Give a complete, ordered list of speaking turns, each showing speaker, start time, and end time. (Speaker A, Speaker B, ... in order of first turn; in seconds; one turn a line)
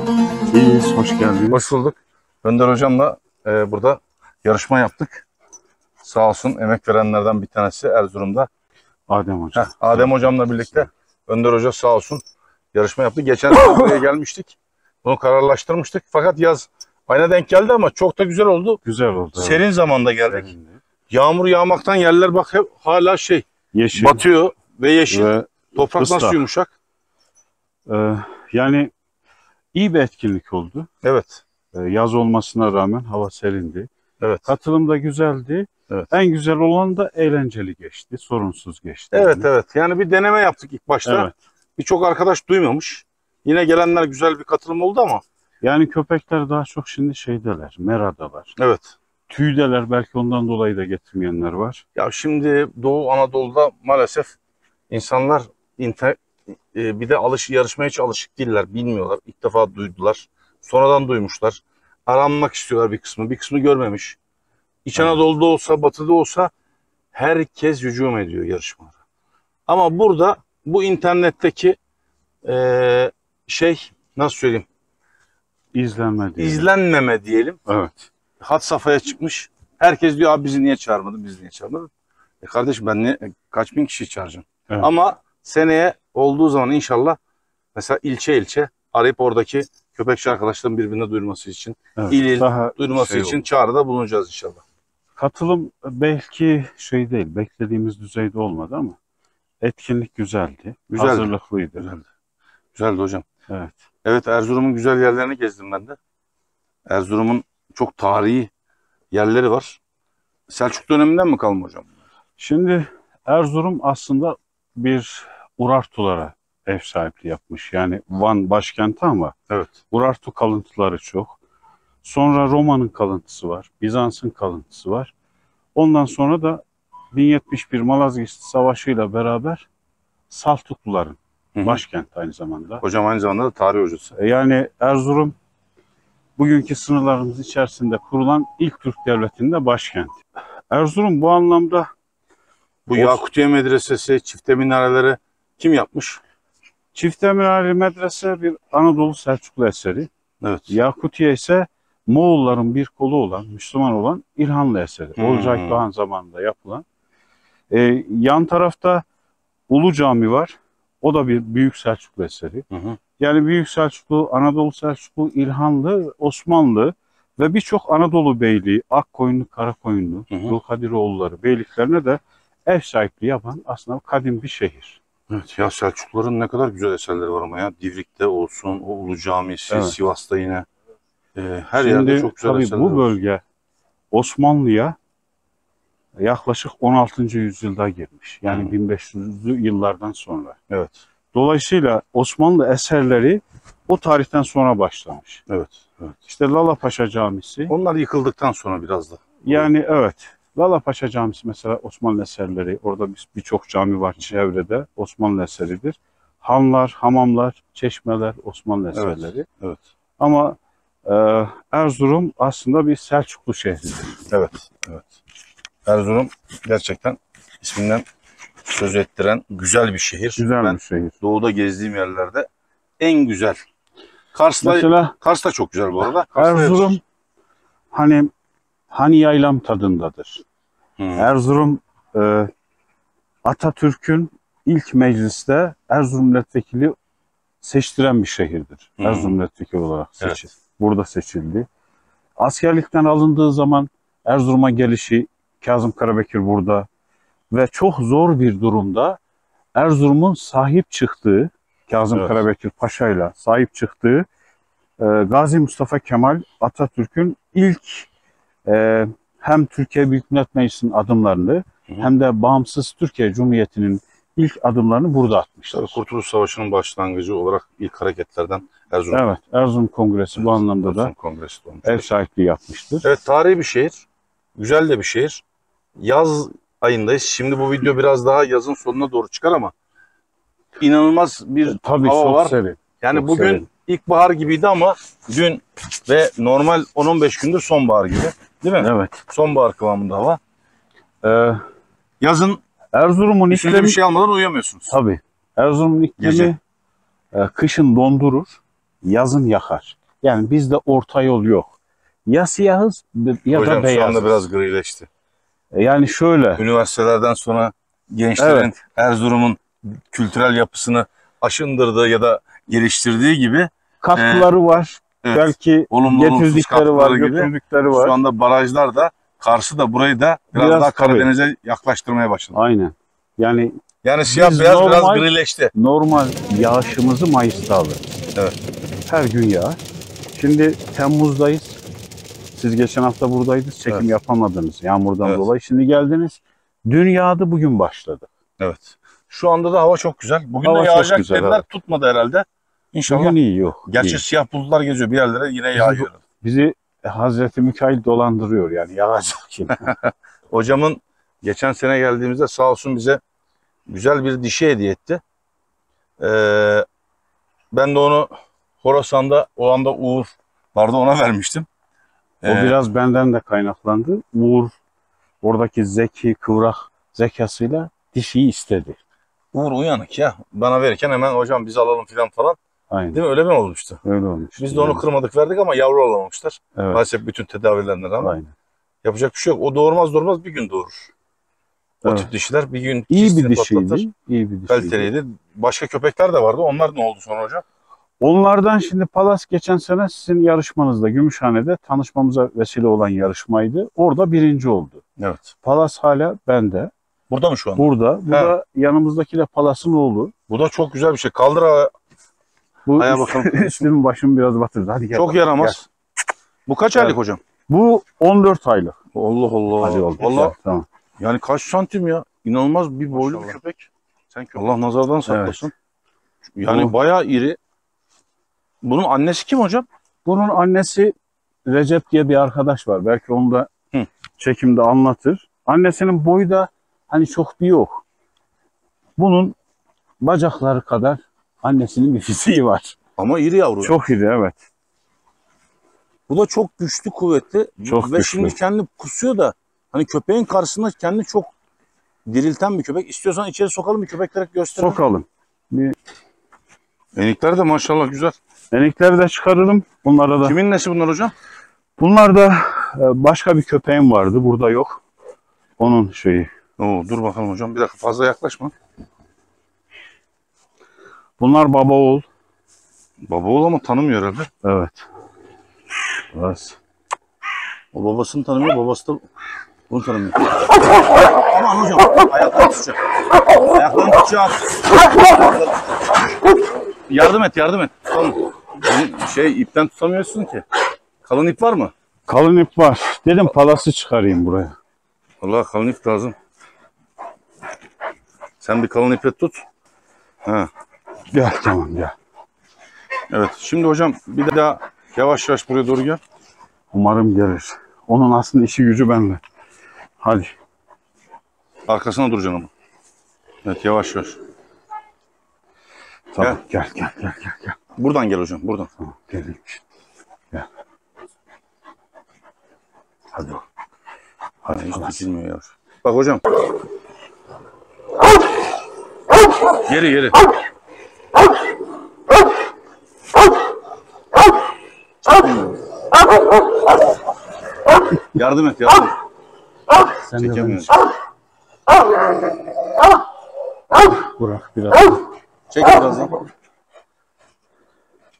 Speaker A: 0.5-1.7
Speaker B: 1.5-5.2
Speaker B: 6.0-8.5
Speaker A: 9.1-10.8
Speaker B: 9.6-12.2
Speaker B: 12.7-18.8
Speaker A: 18.8-19.6
Speaker B: 19.4-20.5
Speaker A: 20.3-20.8
Speaker B: 21.1-26.7
Speaker A: 23.7-24.2
Speaker A: 25.1-26.4
Speaker A: 27.9-28.9
Speaker A: 29.7-30.9
Speaker B: 31.0-31.4
Speaker A: 31.7-33.9
Speaker B: 34.2-34.5
Speaker A: 34.5-39.5
Speaker B: 39.1-45.2
Speaker A: 41.0-41.3
Speaker A: 45.6-48.5
Speaker B: 48.6-49.0
Speaker A: 49.3-51.8
Speaker B: 52.0-54.4
Speaker B: 54.9-64.2
Speaker B: 64.9-66.5
Speaker B: 67.1-68.9
Speaker B: 69.7-71.8
Speaker B: 72.4-74.7
Speaker A: 75.7-76.7
Speaker B: 76.4-77.6
Speaker A: 77.7-78.1
Speaker B: 78.4-81.9
Speaker B: 82.4-87.2
Speaker B: 87.8-94.6
Speaker A: 92.0-93.4
Speaker A: 95.2-99.0
Speaker A: 99.6-101.9
Speaker B: 101.0-102.0
Speaker B: 102.8-103.2
Speaker A: 103.5-103.8
Speaker B: 104.0-106.0
Speaker B: 106.9-108.5
Speaker B: 109.1-109.8
Speaker B: 110.5-111.9
Speaker A: 112.4-119.3
Speaker A: 119.9-121.4
Speaker A: 122.0-125.1
Speaker A: 125.8-129.7
Speaker A: 130.3-132.8
Speaker B: 131.6-131.8
Speaker B: 132.8-134.1
Speaker A: 134.2-135.4
Speaker A: 136.4-140.2
Speaker A: 140.7-141.9
Speaker B: 142.9-146.2
Speaker A: 142.9-143.2
Speaker A: 146.9-150.1
Speaker B: 150.4-150.7
Speaker A: 150.7-156.8
Speaker B: 155.2-155.8
Speaker A: 157.7-159.0
Speaker A: 159.7-162.7
Speaker B: 162.7-163.0
Speaker A: 163.2-175.0
Speaker B: 170.3-170.6
Speaker B: 175.3-180.7
Speaker A: 179.7-180.0
Speaker B: 181.3-183.1
Speaker A: 181.8-183.4
Speaker A: 184.1-185.0
Speaker A: 186.2-190.6
Speaker B: 188.4-188.7
Speaker B: 190.7-191.0
Speaker A: 191.3-195.4
Speaker B: 195.5-196.2
Speaker A: 196.3-197.7
Speaker B: 197.7-199.7
Speaker A: 199.4-209.5
Speaker B: 208.9-209.8
Speaker A: 210.2-214.2
Speaker B: 214.3-215.1
Speaker B: 215.9-218.1
Speaker B: 218.7-222.5
Speaker A: 220.4-221.1
Speaker B: 223.0-223.6
Speaker B: 224.3-227.0
Speaker A: 224.6-225.2
Speaker A: 226.3-227.0
Speaker A: 227.9-228.3
Speaker A: 228.9-230.4
Speaker B: 231.0-231.3
Speaker A: 231.2-232.5
Speaker A: 233.4-237.0
Speaker A: 237.6-241.7
Speaker B: 239.0-239.4
Speaker A: 242.4-246.9
Speaker A: 247.5-249.2
Speaker A: 249.8-254.3
Speaker B: 252.2-252.4
Speaker A: 255.0-258.1
Speaker A: 258.7-266.0
Speaker B: 265.7-269.2
Speaker A: 269.1-271.1
Speaker B: 270.4-272.1
Speaker A: 271.9-273.1
Speaker B: 273.0-274.1
Speaker B: 274.6-275.4
Speaker B: 276.0-279.7
Speaker B: 280.8-290.4
Speaker A: 281.7-283.7
Speaker A: 288.8-289.2
Speaker A: 291.2-291.6
Speaker B: 292.2-292.6
Speaker A: 292.9-294.0
Speaker B: 293.5-295.0
Speaker A: 294.9-296.6
Speaker B: 296.2-296.5
Speaker A: 297.3-304.5
Speaker B: 303.5-305.1
Speaker A: 305.7-306.6
Speaker B: 306.6-314.5
Speaker A: 308.4-308.7
Speaker A: 314.0-318.2
Speaker B: 315.2-322.6
Speaker A: 320.6-321.3
Speaker A: 322.5-328.1
Speaker B: 324.0-325.7
Speaker A: 329.1-329.8
Speaker A: 330.4-331.8
Speaker A: 332.5-338.3
Speaker B: 338.6-346.2
Speaker A: 340.6-341.6
Speaker A: 343.1-344.2
Speaker A: 345.8-349.9
Speaker B: 349.9-353.2
Speaker B: 353.9-355.2
Speaker B: 356.2-356.9
Speaker B: 357.7-361.7
Speaker B: 362.4-362.8
Speaker A: 362.4-364.7
Speaker A: 365.4-369.0
Speaker B: 369.5-372.6
Speaker A: 372.9-373.2
Speaker B: 373.1-374.0
Speaker A: 374.0-375.0
Speaker B: 374.6-378.3
Speaker A: 376.8-377.0
Speaker A: 378.2-378.5
Speaker B: 379.0-381.1
Speaker B: 382.0-384.1
Speaker A: 383.1-385.1
Speaker B: 384.7-387.6
Speaker A: 388.2-395.0
Speaker B: 395.2-395.5
Speaker A: 395.6-396.9
Speaker B: 397.3-398.5
Speaker A: 397.8-400.3
Speaker B: 400.5-401.9
Speaker A: 402.9-405.8
Speaker B: 403.0-403.9
Speaker B: 405.1-405.9
Speaker B: 406.7-407.4
Speaker A: 407.7-409.0
Speaker B: 409.1-410.6
Speaker A: 409.8-410.9
Speaker B: 411.2-415.7
Speaker A: 413.1-413.5
Speaker A: 415.3-415.7
Speaker B: 416.6-417.6
Speaker A: 416.6-416.9
Speaker B: 418.8-419.9
Speaker A: 420.2-421.1
Speaker A: 421.7-423.7
Speaker A: 424.4-428.0
Speaker A: 429.2-429.6
Speaker A: 430.2-433.0
Speaker B: 433.2-433.9
Speaker A: 433.8-434.6
Speaker B: 436.3-441.5
Speaker A: 437.9-438.6
Speaker B: 442.3-445.0
Speaker A: 444.8-446.0
Speaker B: 447.1-448.4
Speaker A: 448.7-450.6
Speaker B: 450.4-451.3
Speaker A: 452.0-455.0
Speaker A: 455.8-456.5
Speaker B: 456.8-458.7
Speaker A: 461.4-462.2
Speaker B: 463.3-464.5
Speaker A: 464.6-465.1
Speaker A: 466.3-466.8
Speaker B: 467.9-469.2
Speaker B: 469.9-473.0
Speaker B: 473.7-475.5
Speaker B: 477.1-480.6
Speaker B: 481.2-481.9
Speaker A: 482.3-484.8
Speaker B: 485.4-486.4
Speaker B: 488.6-489.6
Speaker B: 490.4-490.7
Speaker A: 491.3-492.1
Speaker B: 493.3-496.2
Speaker A: 496.9-499.4
Speaker A: 500.2-500.5
Speaker B: 501.9-502.7
Speaker B: 503.6-504.4
Speaker A: 506.3-507.8
Speaker B: 508.0-508.9
Speaker A: 509.0-509.8
Speaker A: 513.3-513.6
Speaker A: 514.6-515.2
Speaker B: 514.8-516.4
Speaker B: 519.8-520.4
Speaker B: 525.2-525.8
Speaker B: 528.3-529.1
Speaker A: 530.3-530.9
Speaker B: 530.4-530.9
Speaker A: 534.0-535.2
Speaker B: 535.7-536.4